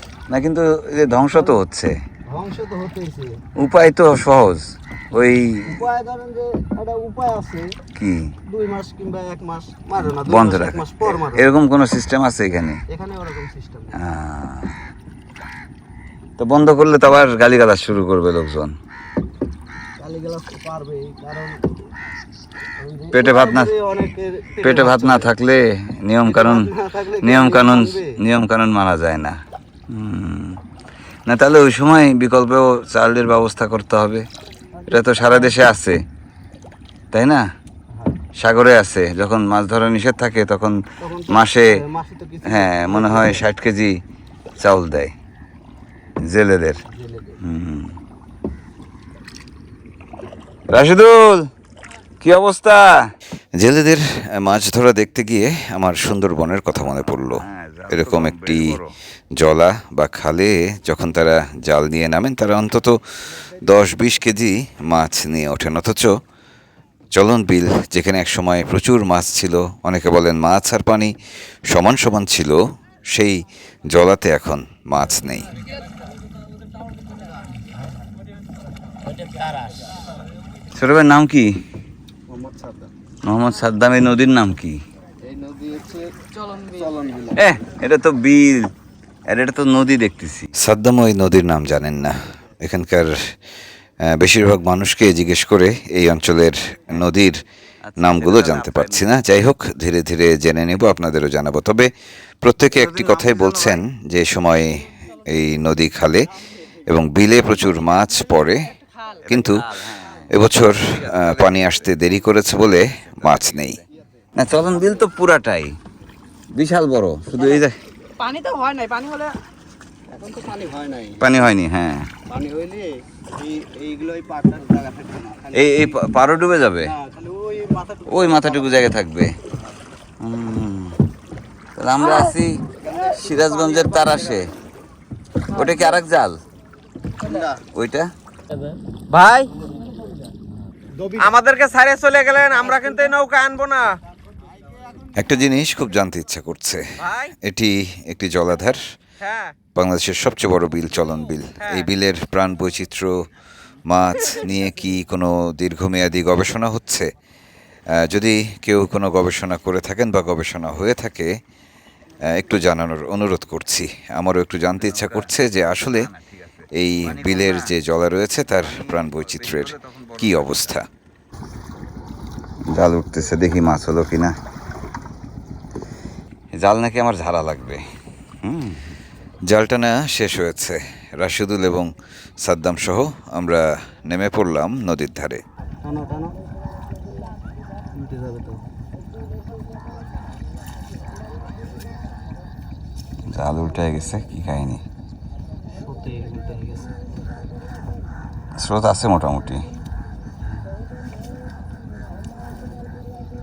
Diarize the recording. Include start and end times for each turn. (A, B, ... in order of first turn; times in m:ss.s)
0:00.3-0:02.0 A
0:01.3-0:01.6 B
0:02.3-0:03.4 B
0:03.6-0:05.8 A
0:05.6-0:07.8 B
0:08.0-0:08.3 A
0:08.4-0:11.6 B
0:10.0-0:12.8 A
0:12.9-0:14.0 B
0:13.9-0:14.8 A
0:16.4-0:18.8 A
0:20.0-0:21.6 B
0:22.8-0:25.3 B
0:23.1-0:23.7 A
0:24.6-0:29.4 A
0:26.2-0:28.2 B
0:29.9-0:30.6 A
0:31.2-0:34.2 A
0:34.8-0:35.6 B
0:34.9-0:36.0 A
0:37.1-0:37.4 A
0:38.4-0:41.8 A
0:41.0-0:43.5 B
0:42.4-0:44.0 A
0:44.6-0:45.1 A
0:46.2-0:46.8 A
0:46.9-0:47.4 B
0:47.4-0:48.0 A
0:50.7-0:51.5 A
0:52.2-0:53.1 A
0:53.5-0:58.8 C
0:56.7-0:59.0 A
0:59.3-1:06.1 C
1:07.1-1:11.1 C
1:11.7-1:15.6 C
1:20.7-1:21.6 A
1:22.3-1:22.9 B
1:23.2-1:24.8 A
1:25.2-1:26.2 B
1:26.3-1:26.9 D
1:26.7-1:27.4 B
1:27.3-1:28.7 A
1:29.3-1:30.5 A
1:30.6-1:33.2 C
1:34.0-1:37.4 C
1:37.8-1:39.2 A
1:38.0-1:41.9 C
1:42.4-1:48.8 C
1:42.7-1:43.8 A
1:49.2-1:52.2 A
1:49.3-1:49.6 C
1:50.3-1:53.8 C
1:52.8-1:53.8 A
1:54.3-1:55.8 A
1:54.5-1:54.9 B
1:56.5-1:57.8 A
1:58.2-1:59.4 D
2:00.1-2:01.4 B
2:01.2-2:02.1 A
2:02.2-2:06.0 B
2:05.5-2:06.9 A
2:06.8-2:08.9 B
2:08.1-2:09.4 A
2:10.2-2:11.0 A
2:11.8-2:14.5 A
2:12.0-2:12.9 D
2:12.8-2:14.4 B
2:15.5-2:16.0 D
2:15.5-2:16.4 A
2:17.2-2:17.5 D
2:17.2-2:17.6 B
2:17.7-2:18.1 A
2:19.1-2:19.5 E
2:21.0-2:21.2 B
2:21.2-2:24.0 E
2:22.6-2:23.0 D
2:25.2-2:28.8 C
2:27.0-2:27.3 E
2:29.2-2:29.5 E
2:29.7-2:33.2 C
2:31.6-2:31.9 E
2:33.9-2:37.1 C
2:37.9-2:41.3 C
2:42.2-2:46.1 C
2:44.8-2:47.7 A
2:46.7-2:50.8 C
2:48.5-2:50.8 A
2:52.7-2:54.3 A
2:56.5-2:57.8 A
2:58.4-2:58.8 A
2:59.5-3:05.4 C
3:05.8-3:06.3 B
3:07.9-3:08.6 B
3:13.2-3:14.8 A
3:15.7-3:16.9 B
3:18.6-3:19.6 A